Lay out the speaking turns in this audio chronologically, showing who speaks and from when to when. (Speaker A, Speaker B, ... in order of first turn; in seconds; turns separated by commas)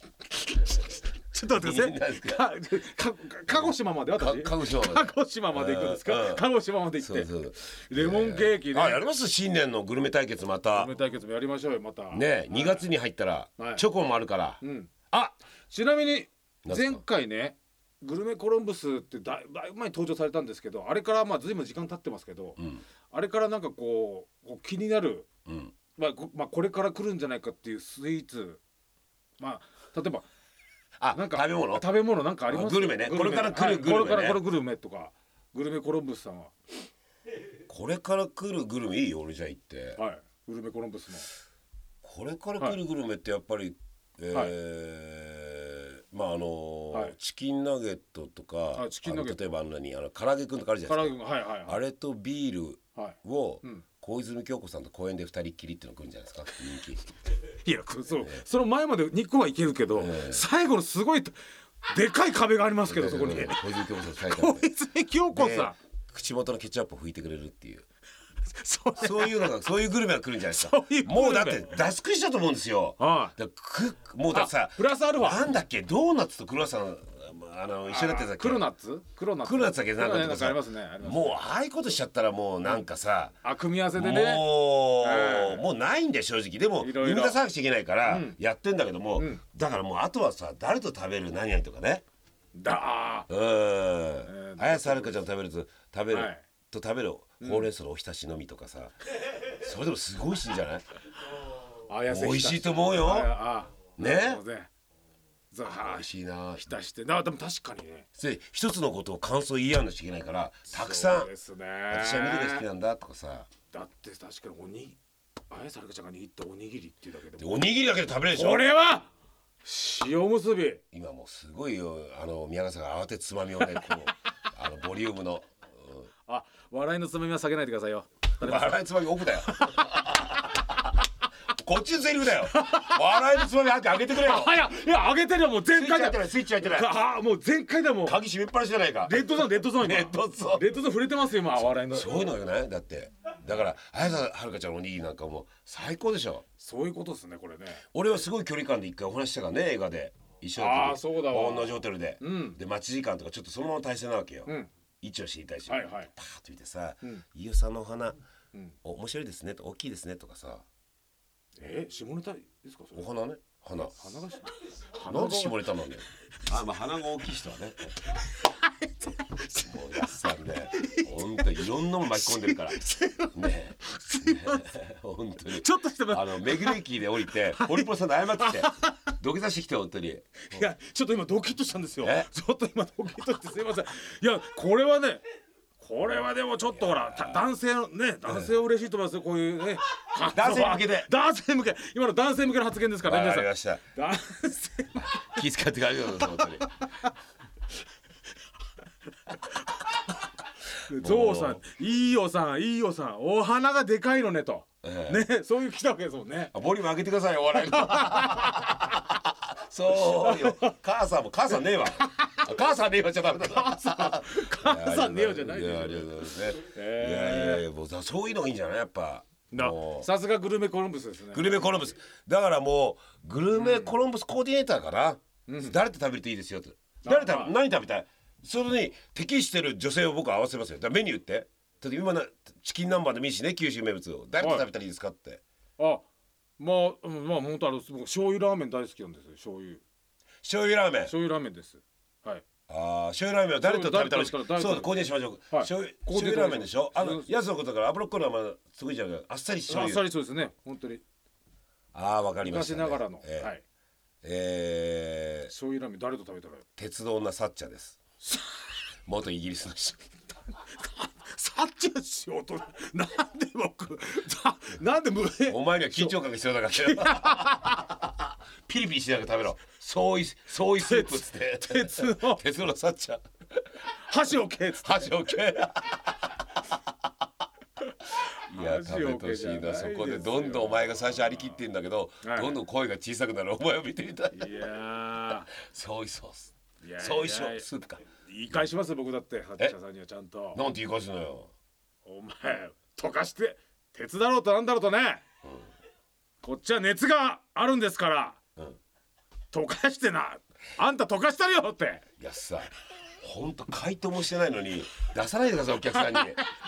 Speaker A: 0.3-9.1, Speaker B: 1.4-2.5, Speaker B: 3.5-10.9, Speaker A: 10.7-12.8, Speaker B: 12.1-14.6, Speaker A: 13.6-13.8, Speaker A: 14.6-15.1, Speaker A: 15.7-22.6, Speaker B: 16.6-17.0, Speaker B: 22.6-22.8, Speaker A: 23.1-25.3, Speaker B: 25.5-25.7, Speaker A: 26.0-28.6, Speaker A: 29.4-30.2, Speaker B: 31.0-31.9, Speaker A: 31.1-36.5, Speaker B: 32.5-34.4, Speaker B: 37.7-40.0, Speaker A: 40.0-41.3, Speaker B: 42.0-57.1, Speaker A: 48.7-49.4, Speaker A: 50.9-51.8, Speaker A: 53.0-53.8, Speaker A: 57.5-65.8, Speaker B: 59.9-60.5, Speaker B: 62.8-64.7, Speaker B: 65.3-67.8, Speaker A: 68.5-69.5, Speaker B: 69.0-78.7, Speaker A: 70.5-71.8, Speaker A: 73.0-73.3, Speaker A: 74.3-75.5, Speaker A: 77.9-81.5, Speaker B: 79.4-83.3, Speaker A: 83.4-85.7, Speaker B: 84.0-92.0, Speaker A: 86.8-87.4, Speaker A: 88.0-88.4, Speaker A: 89.2-89.4, Speaker A: 92.5-93.3, Speaker B: 93.3-98.9, Speaker A: 94.3-95.2, Speaker A: 96.1-96.4, Speaker A: 97.4-97.7, Speaker B: 99.5-100.8, Speaker A: 101.9-104.7, Speaker B: 102.1-103.3, Speaker B: 104.0-104.4, Speaker A: 105.5-106.1, Speaker B: 105.6-106.7, Speaker A: 106.7-108.1, Speaker B: 108.2-111.3, Speaker A: 110.7-112.7, Speaker B: 111.9-113.5, Speaker A: 113.7-115.0, Speaker A: 115.5-117.7, Speaker B: 117.4-118.7, Speaker A: 118.3-119.1, Speaker A: 119.6-120.8, Speaker B: 120.9-126.1, Speaker A: 126.3-128.8, Speaker B: 128.4-130.4, Speaker A: 129.5-130.6, Speaker B: 131.6-134.6, Speaker A: 132.4-133.5, Speaker A: 134.2-138.2, Speaker B: 135.7-136.9, Speaker B: 138.0-140.8, Speaker A: 139.1-142.2, Speaker B: 141.7-146.4, Speaker A: 146.6-147.8, Speaker B: 147.9-158.2, Speaker A: 150.6-152.6, Speaker A: 155.7-156.1, Speaker B: 158.8-160.7, Speaker A: 161.6-163.1, Speaker B: 162.9-164.0, Speaker A: 163.8-165.7, Speaker B: 165.0-168.0, Speaker A: 168.5-170.0, Speaker B: 169.5-180.7, Speaker A: 170.7-174.7, Speaker A: 175.5-179.1, Speaker A: 180.5-185.2, Speaker B: 182.0-182.3, Speaker A: 185.8-195.3, Speaker B: 186.7-187.5, Speaker B: 188.3-188.5, Speaker B: 190.3-191.1, Speaker B: 193.0-193.8, Speaker B: 195.2-196.7, Speaker A: 196.2-197.1, Speaker A: 199.3-200.2, Speaker A: 200.8-206.5, Speaker B: 200.9-201.6, Speaker B: 204.8-205.3, Speaker B: 206.5-220.1, Speaker A: 207.5-208.8, Speaker A: 209.9-210.8, Speaker A: 212.1-212.5, Speaker A: 213.4-217.6, Speaker A: 219.5-221.7, Speaker B: 221.3-235.4, Speaker A: 223.5-223.9, Speaker A: 225.5-225.8, Speaker A: 227.0-227.5, Speaker A: 234.4-234.7, Speaker A: 235.8-236.1, Speaker A: 236.6-239.8, Speaker B: 240.4-241.1, Speaker A: 241.1-242.5, Speaker B: 242.7-250.1, Speaker A: 243.6-247.3, Speaker A: 249.7-251.0, Speaker B: 251.9-253.5, Speaker A: 252.4-253.6, Speaker B: 254.2-255.5, Speaker A: 255.5-256.6, Speaker B: 256.8-258.0, Speaker B: 259.1-260.1, Speaker A: 260.7-266.1, Speaker B: 265.5-268.1, Speaker A: 266.7-267.9, Speaker B: 268.6-273.2, Speaker A: 270.8-272.4, Speaker A: 274.1-275.2, Speaker B: 274.8-276.1, Speaker A: 278.2-281.3, Speaker B: 278.5-284.6, Speaker A: 282.2-282.6, Speaker A: 284.3-285.5, Speaker B: 285.5-288.0, Speaker A: 286.8-287.7, Speaker A: 288.3-290.6, Speaker B: 290.5-291.5, Speaker A: 292.1-295.2, Speaker A: 296.4-298.4, Speaker A: 299.5-302.0, Speaker B: 302.2-306.4, Speaker A: 305.9-306.4